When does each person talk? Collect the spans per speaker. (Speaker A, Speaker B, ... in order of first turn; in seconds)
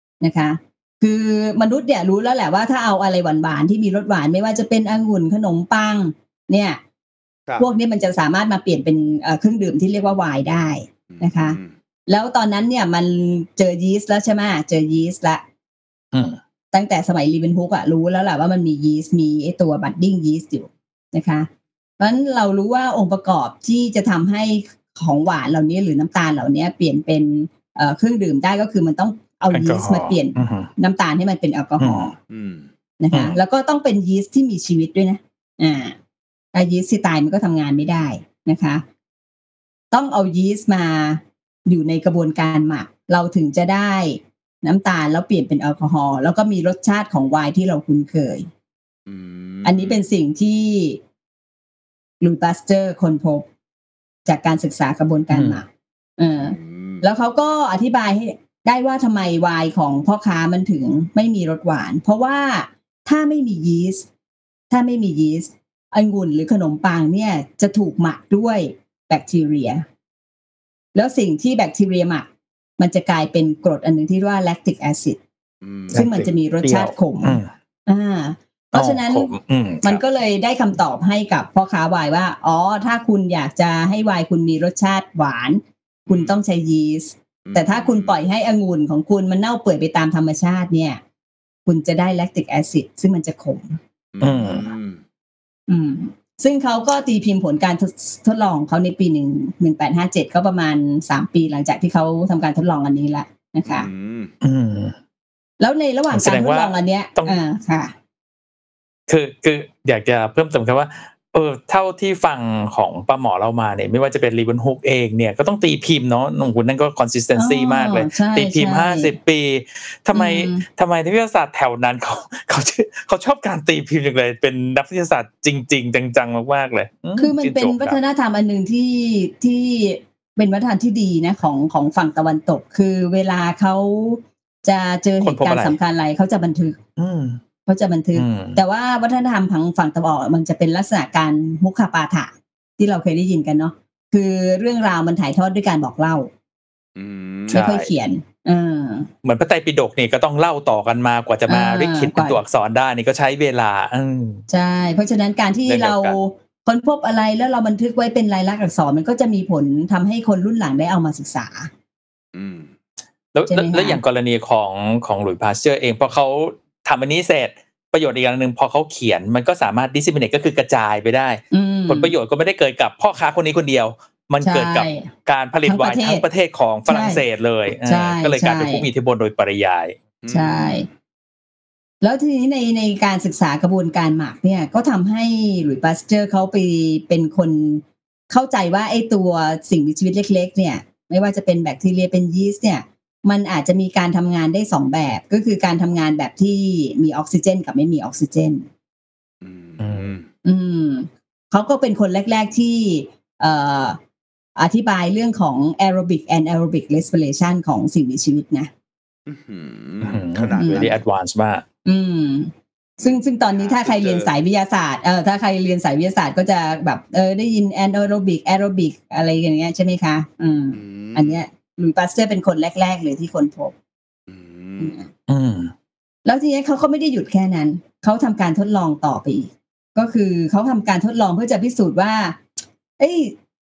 Speaker A: 0.2-6.8, 7.6-15.4, 16.7-21.5, 22.0-32.1, 33.0-36.0, 36.5-38.8, 39.9-48.5, 49.6-51.0, 52.2-53.5, 54.3-55.6, 56.2-64.1, 64.7-69.8, 70.9-72.3, 72.8-75.2, 75.9-79.3, 79.8-91.0, 91.7-93.8, 95.7-103.9, 105.6-107.9, 117.3-119.1, 120.1-120.6, 127.2-136.8, 137.7-146.3, 147.5-149.1, 151.5-152.4, 154.5-161.7, 163.5-164.0, 171.5-172.1, 174.4-175.1, 175.7-176.2, 176.9-177.2, 177.8-178.9, 180.3-180.9, 182.0-198.6, 200.4-204.0, 204.6-208.7, 210.6-210.9, 211.8-223.7, 224.8-225.1, 226.3-232.4, 233.0-233.3
Speaker B: 11.1-11.7, 32.3-32.7, 49.1-50.0, 56.4-57.0, 75.6-76.3, 86.1-86.4, 87.4-88.2, 94.1-95.0, 103.7-104.3, 146.9-147.7, 162.3-162.7, 180.2-180.9, 199.4-200.3, 209.3-211.0, 213.0-214.3, 220.7-221.4, 224.3-225.0
Speaker C: 16.1-16.4, 29.5-30.7, 31.8-32.1, 55.3-55.6, 75.9-77.5, 78.7-80.0, 94.2-94.7, 104.4-105.0, 106.1-107.3, 109.1-128.0, 135.2-135.8, 137.0-137.4, 138.1-138.6, 147.5-147.9, 149.2-154.4, 155.7-156.2, 163.3-179.9, 199.8-200.1, 210.0-211.6, 225.3-225.7